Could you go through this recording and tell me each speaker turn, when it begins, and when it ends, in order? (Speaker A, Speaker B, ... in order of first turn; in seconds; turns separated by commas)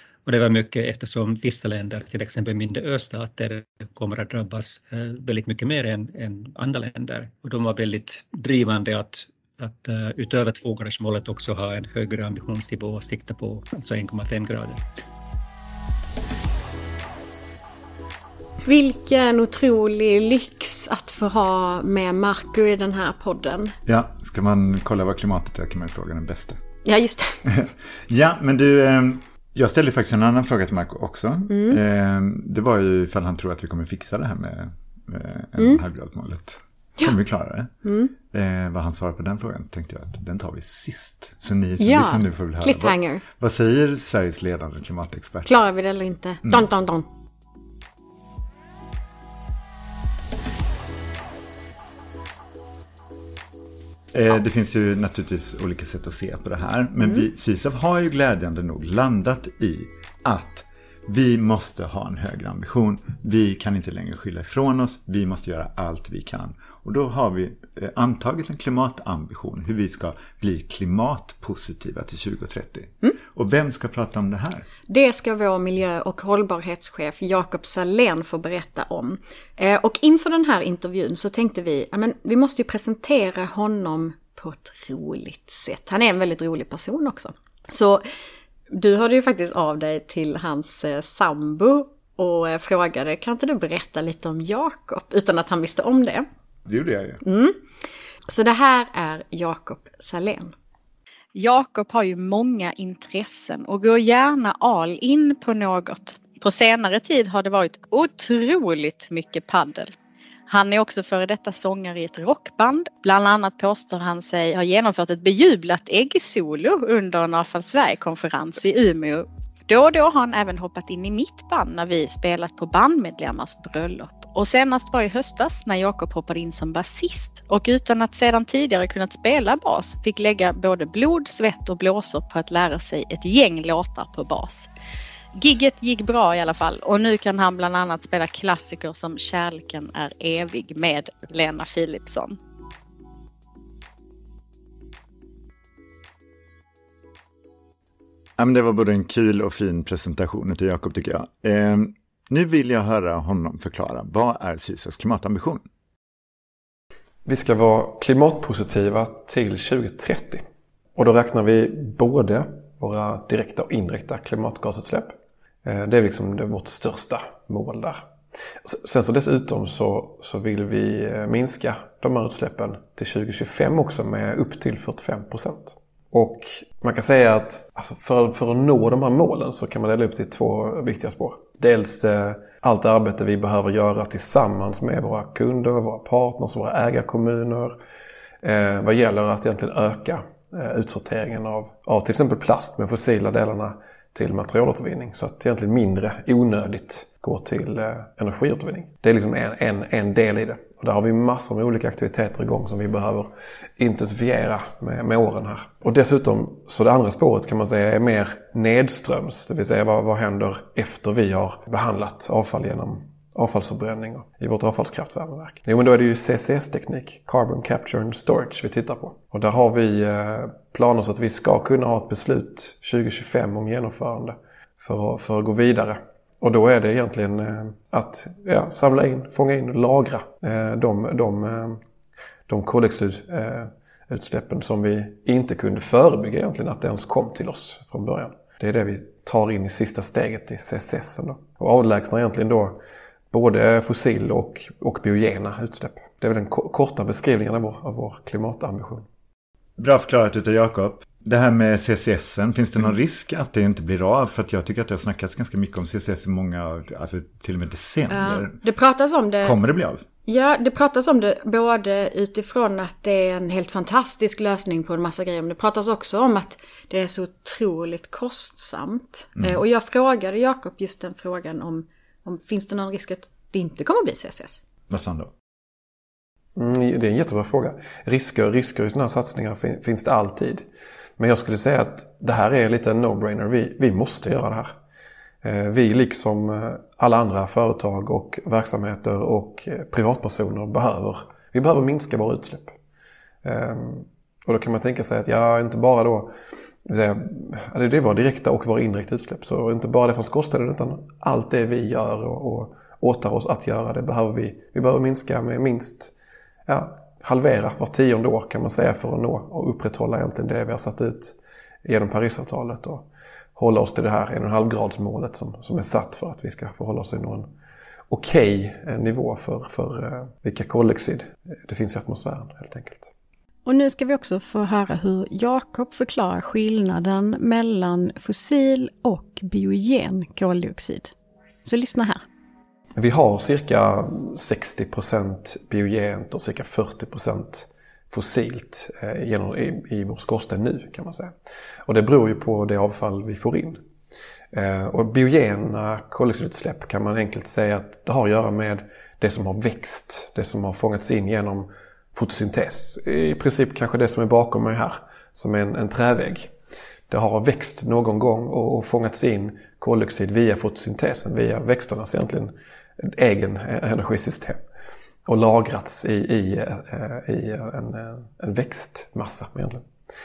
Speaker A: 0.2-14.8, Speaker B: 18.6-23.7, Speaker C: 23.9-26.6, Speaker B: 26.8-27.4, Speaker C: 27.4-37.7, Speaker B: 31.5-31.8, Speaker B: 35.6-35.8, Speaker B: 37.8-38.1, Speaker C: 38.3-45.6, Speaker B: 41.8-43.2, Speaker B: 45.5-47.0, Speaker C: 54.1-74.7, Speaker B: 74.9-88.0, Speaker B: 88.7-96.2, Speaker C: 96.7-97.2, Speaker B: 97.2-97.6, Speaker B: 98.2-100.5, Speaker D: 101.3-109.9, Speaker D: 110.5-134.7, Speaker D: 135.3-142.4, Speaker C: 148.4-155.6, Speaker E: 157.2-160.4, Speaker E: 160.9-168.0, Speaker E: 168.6-187.8, Speaker E: 188.4-231.8, Speaker E: 232.5-242.8, Speaker E: 243.3-249.1, Speaker C: 249.8-258.6, Speaker B: 258.1-259.6, Speaker C: 259.4-260.0, Speaker B: 260.2-274.6, Speaker C: 274.9-275.3, Speaker E: 276.6-280.6, Speaker E: 281.2-284.7, Speaker E: 285.4-292.8, Speaker E: 293.4-296.3, Speaker E: 296.8-306.1, Speaker E: 306.6-317.5, Speaker E: 318.1-323.1, Speaker B: 323.6-331.1, Speaker B: 331.6-332.2, Speaker E: 332.9-341.3, Speaker E: 341.9-343.8, Speaker E: 344.5-356.5, Speaker E: 357.1-364.6, Speaker E: 365.2-369.9